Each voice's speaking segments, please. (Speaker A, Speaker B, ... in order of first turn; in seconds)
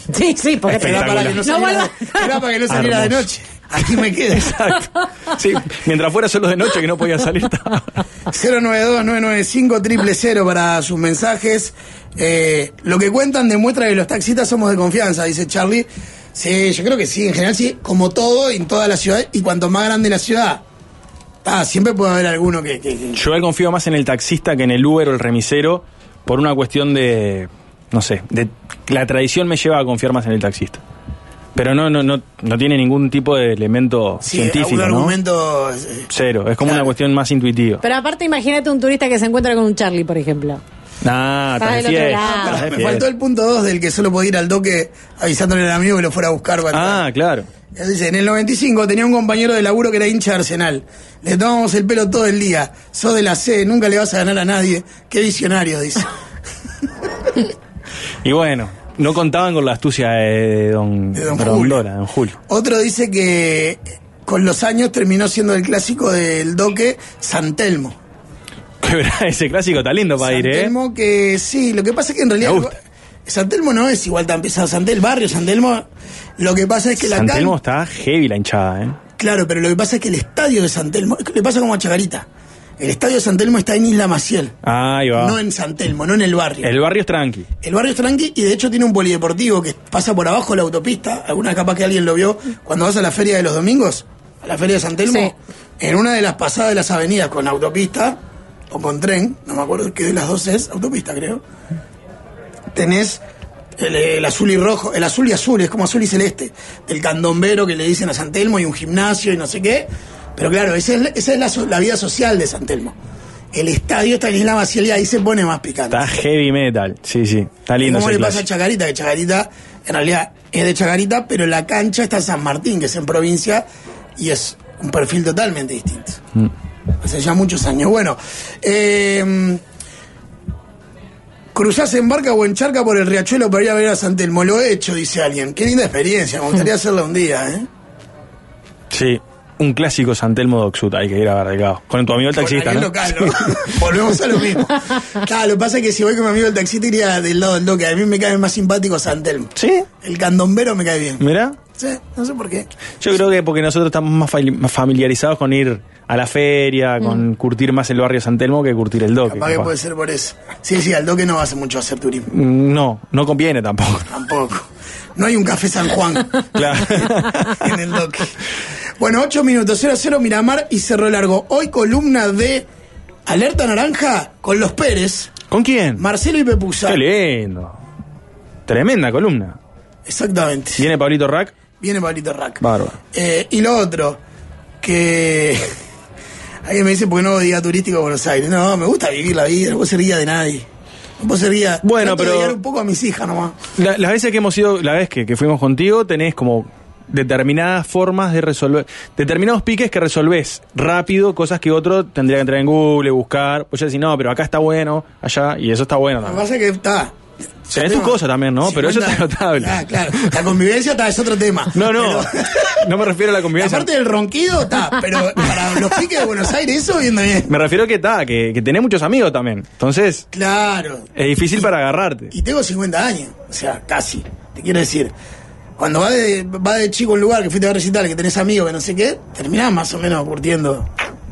Speaker A: 0.1-2.4, 37.8-40.6, 41.6-42.7, 95.1-95.3
Speaker B: 0.7-1.4, 2.7-3.3, 4.3-7.9, 23.1-30.8, 31.6-35.1, 36.1-37.8, 41.0-43.1, 46.7-47.5, 58.2-62.4, 68.8-70.7, 72.4-72.7, 77.0-79.0, 84.6-85.4, 86.6-87.5, 115.9-118.4, 138.9-143.8, 149.6-149.9, 151.2-151.6, 153.0-159.7, 162.3-164.1, 166.6-167.6, 175.5-176.0, 176.9-177.8, 178.7-179.6, 180.8-181.6, 182.6-183.0, 191.8-192.6, 193.8-206.4, 207.7-210.4, 211.7-213.9, 217.5-220.2, 221.2-222.3
Speaker C: 0.7-4.6, 8.3-20.6, 21.4-23.2, 34.2-36.1, 36.6-36.9, 42.2-47.0, 47.7-56.1, 61.1-61.9, 62.5-68.0, 70.2-77.6, 79.2-82.3, 82.8-84.6, 85.1-86.7, 87.6-98.2, 98.7-101.4, 102.7-103.2, 103.8-113.0, 113.5-116.0, 117.8-123.7, 124.2-126.2, 127.0-129.6, 131.5-137.7, 142.3-151.2, 151.7-152.7, 159.2-162.3, 164.1-168.4, 169.0-172.7, 173.3-175.4, 176.0-177.0, 180.1-180.9, 181.8-184.2, 184.8-185.7, 186.6-190.7, 191.2-193.6, 206.2-212.9, 213.5-217.5, 220.3-221.7, 222.3-225.1, 225.8-230.9